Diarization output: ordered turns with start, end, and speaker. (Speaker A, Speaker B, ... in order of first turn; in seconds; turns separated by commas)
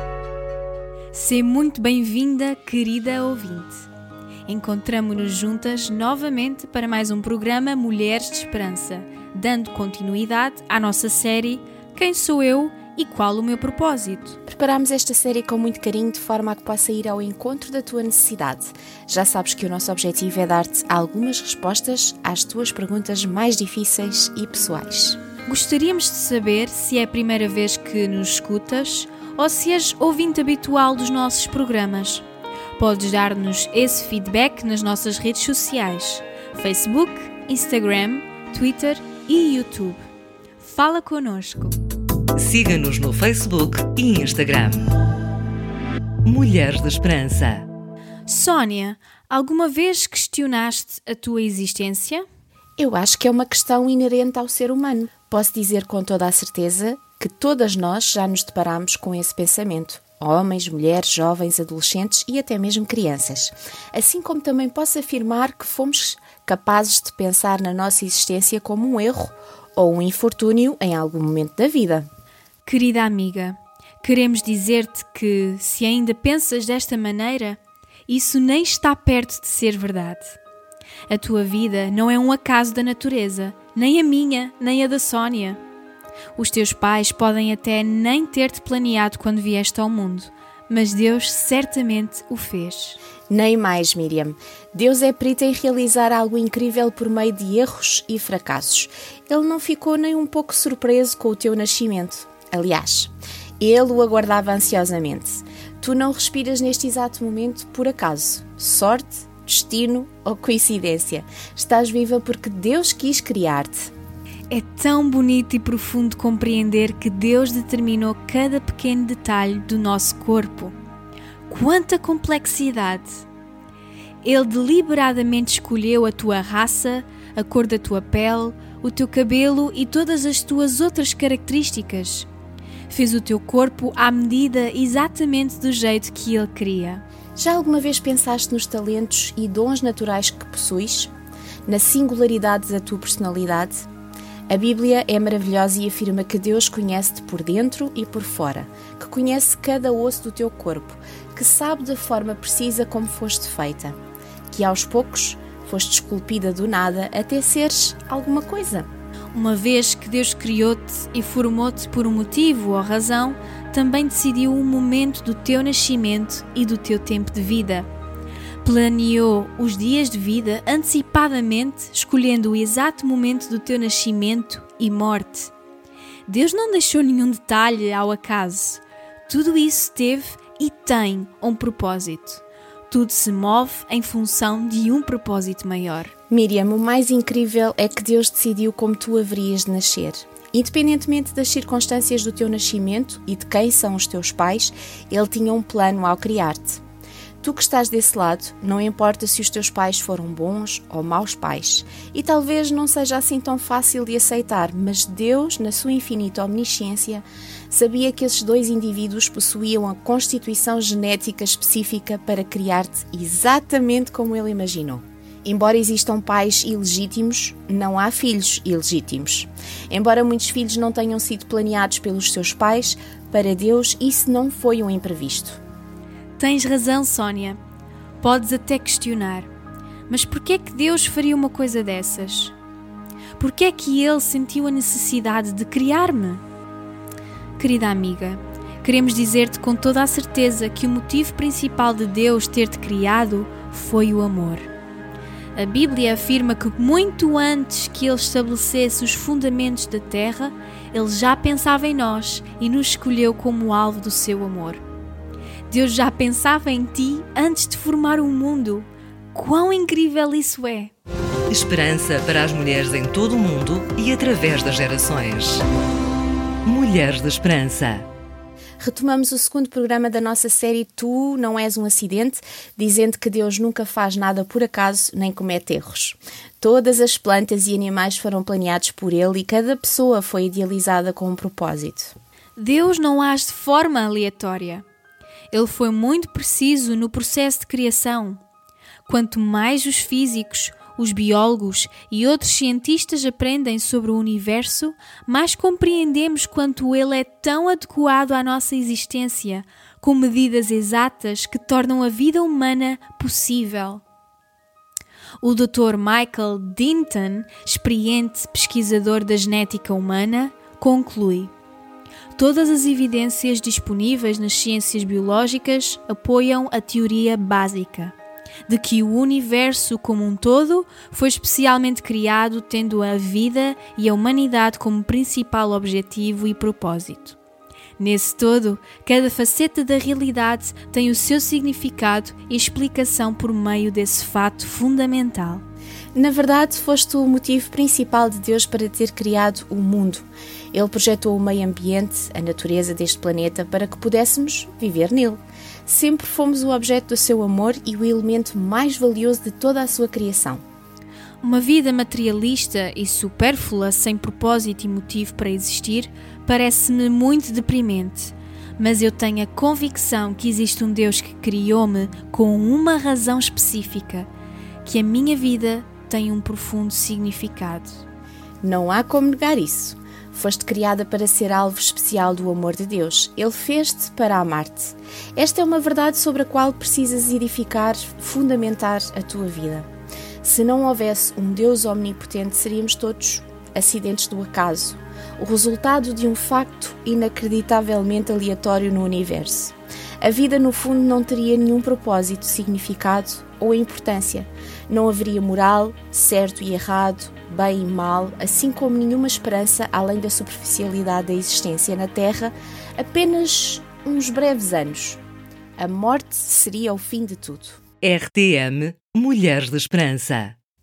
Speaker A: 1.1-3.9, Speaker A: 4.5-14.4, Speaker B: 14.5-25.2, Speaker A: 25.4-32.2, Speaker A: 32.8-40.0, Speaker A: 40.6-41.8, Speaker C: 42.4-44.9, Speaker C: 46.2-47.7, Speaker A: 48.2-52.2, Speaker B: 52.8-72.1, Speaker A: 72.6-80.4, Speaker A: 81.1-85.6, Speaker A: 86.3-93.0, Speaker B: 93.3-113.9, Speaker A: 114.5-120.8, Speaker A: 121.5-123.2, Speaker A: 124.2-132.3, Speaker A: 132.9-137.0, Speaker B: 137.4-141.1, Speaker B: 141.7-143.8, Speaker B: 144.5-153.9, Speaker B: 154.5-158.9, Speaker A: 159.3-167.9, Speaker A: 168.6-175.5, Speaker A: 176.2-186.1, Speaker B: 186.3-196.8, Speaker B: 197.4-225.6, Speaker A: 226.4-227.6, Speaker A: 228.2-229.5, Speaker A: 230.1-232.5, Speaker A: 233.4-236.4, Speaker A: 237.6-244.7, Speaker A: 245.5-254.8, Speaker A: 255.7-260.9, Speaker C: 261.5-265.6, Speaker C: 266.6-268.1, Speaker B: 268.8-282.1, Speaker A: 282.6-284.8, Speaker A: 285.5-288.4, Speaker A: 289.1-304.0, Speaker A: 305.4-311.5, Speaker A: 312.3-318.1, Speaker A: 318.6-327.4, Speaker A: 328.0-335.6, Speaker B: 336.1-350.6, Speaker A: 351.4-364.3, Speaker A: 364.8-368.0, Speaker B: 368.6-379.9, Speaker B: 380.4-405.2, Speaker B: 405.8-407.8, Speaker C: 408.0-410.6